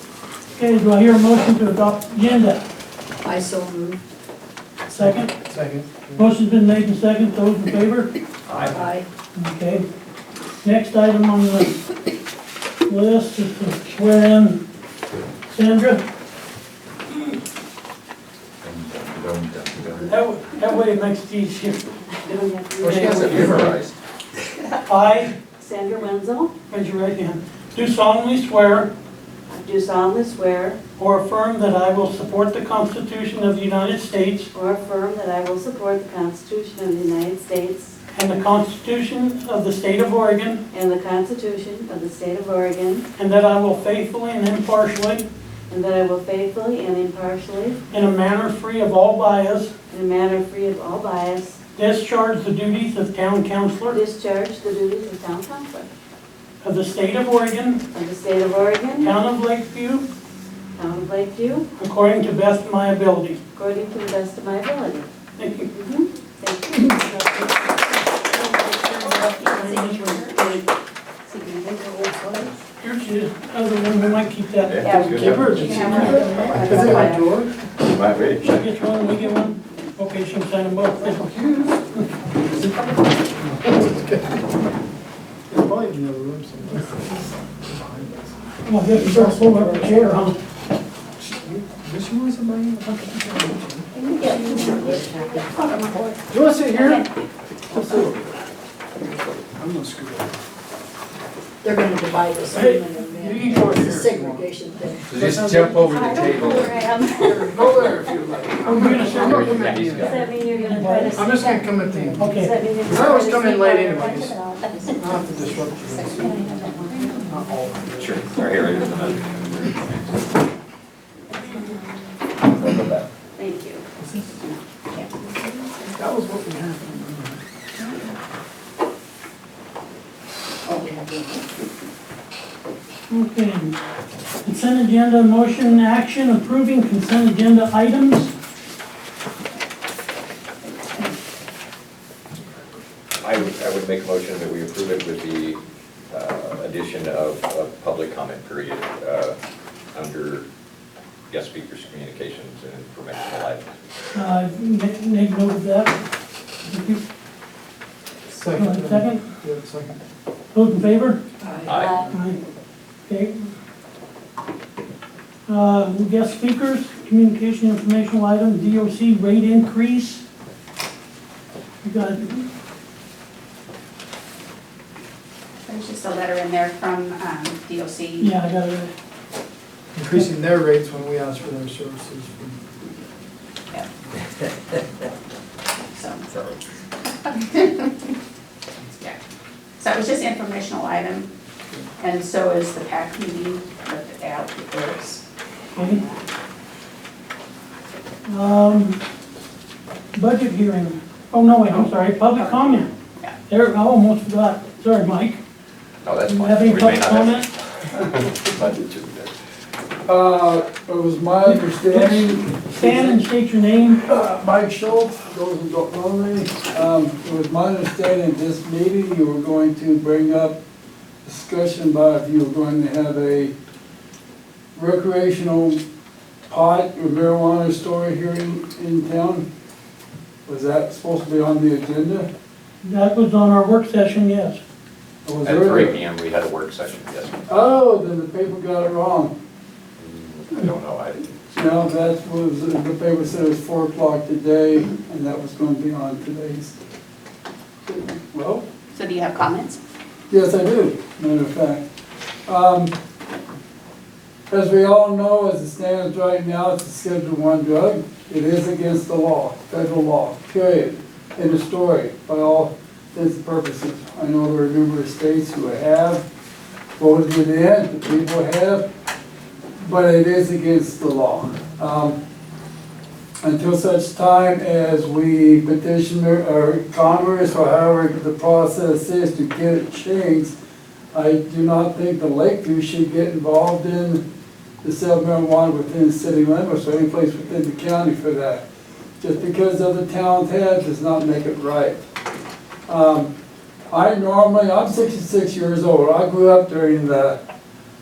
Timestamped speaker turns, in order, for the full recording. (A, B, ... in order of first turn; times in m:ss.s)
0:00.6-0:02.6 A
0:03.2-0:04.0 B
0:04.9-0:05.3 A
0:04.9-0:06.3 C
0:06.2-0:08.1 A
0:08.5-0:08.8 D
0:08.7-0:09.0 B
0:09.4-0:09.8 A
0:10.6-0:11.8 A
0:12.9-0:14.6 A
0:15.5-0:16.0 A
0:18.6-0:20.1 D
0:20.0-0:21.8 A
0:22.2-0:23.7 E
0:22.8-0:23.8 C
0:22.8-0:23.9 D
0:24.9-0:25.3 A
0:25.6-0:26.5 E
0:26.7-0:28.9 A
0:29.5-0:30.8 E
0:31.0-0:34.5 A
0:34.5-0:38.0 E
0:38.1-0:40.6 A
0:40.7-0:43.1 E
0:43.2-0:45.2 A
0:45.7-0:47.8 E
0:47.9-0:49.7 A
0:49.9-0:51.6 E
0:51.8-0:54.0 A
0:53.9-0:55.9 E
0:56.6-0:57.8 A
0:57.9-0:59.1 E
0:59.0-1:00.1 A
1:00.8-1:01.7 E
1:01.8-1:03.4 A
1:03.6-1:05.1 E
1:05.4-1:05.7 A
1:05.7-1:07.4 E
1:07.0-1:07.5 A
1:08.4-1:10.6 F
1:09.6-1:10.0 A
1:11.7-1:12.5 C
1:12.8-1:15.0 A
1:14.6-1:16.2 D
1:14.8-1:17.4 F
1:14.9-1:17.6 C
1:17.8-1:18.7 D
1:18.4-1:21.2 A
1:21.0-1:21.9 C
1:22.4-1:24.5 C
1:25.5-1:28.4 C
1:28.6-1:30.4 A
1:28.9-1:30.2 C
1:31.2-1:35.0 C
1:34.2-1:36.2 F
1:34.4-1:35.7 E
1:36.3-1:37.1 C
1:36.7-1:37.2 F
1:37.7-1:38.4 C
1:39.0-1:40.3 C
1:41.6-1:45.1 B
1:42.5-1:44.5 C
1:45.1-1:46.3 C
1:45.1-1:46.6 D
1:45.2-1:46.7 G
1:45.8-1:47.9 E
1:47.2-1:50.2 C
1:48.6-1:49.5 A
1:49.2-1:50.3 D
1:50.0-1:55.2 E
1:50.6-1:51.2 A
1:51.1-1:54.4 C
1:52.2-1:52.5 A
1:54.7-1:56.1 B
1:55.0-1:56.6 C
1:56.0-1:57.2 E
1:56.2-1:57.2 F
1:57.2-1:58.3 C
1:57.9-2:00.2 D
2:02.4-2:03.1 D
2:03.4-2:03.8 F
2:04.0-2:04.6 C
2:04.9-2:05.2 F
2:05.9-2:07.4 C
2:07.8-2:08.2 F
2:10.9-2:11.3 C
2:13.1-2:13.8 A
2:14.4-2:18.3 A
2:23.2-2:25.6 D
2:26.1-2:29.4 D
2:29.9-2:30.5 D
2:31.3-2:33.7 D
2:34.1-2:36.0 A
2:36.6-2:37.0 A
2:38.3-2:40.0 C
2:38.6-2:39.2 A
2:40.5-2:41.2 A
2:41.4-2:42.1 B
2:41.6-2:42.0 D
2:42.1-2:42.4 A
2:43.1-2:43.5 A
2:45.5-2:50.2 A
2:51.8-2:52.4 A
2:55.6-2:58.3 F
2:58.2-2:58.9 A
3:00.0-3:02.6 C
3:05.9-3:06.3 F
3:07.3-3:07.9 F
3:09.8-3:11.3 F
3:12.0-3:15.2 F
3:15.8-3:16.0 A
3:15.8-3:16.2 F
3:18.3-3:19.0 A
3:20.2-3:22.9 A
3:21.7-3:23.4 F
3:23.5-3:25.4 A
3:26.0-3:29.4 D
3:26.3-3:27.5 A
3:30.1-3:33.2 G
3:31.4-3:34.0 A
3:34.1-3:40.6 G
3:41.2-3:43.5 G
3:44.8-3:45.8 G
3:46.5-3:49.5 G
3:50.5-3:52.3 G
3:52.8-3:54.6 A
3:55.2-3:56.0 G
3:55.4-3:57.4 D
3:57.5-3:59.3 G
4:00.0-4:01.6 D
4:01.6-4:06.8 G
4:07.9-4:08.6 G
4:08.9-4:09.8 F
4:10.3-4:11.8 G
4:12.5-4:12.9 G
4:14.5-4:26.2 G
4:27.0-4:28.8 G
4:29.8-4:32.2 G
4:33.4-4:40.5 G
4:41.1-4:44.2 G
4:44.8-4:48.6 G
4:49.2-4:52.0 G
4:52.9-4:53.3 G
4:53.9-4:57.4 G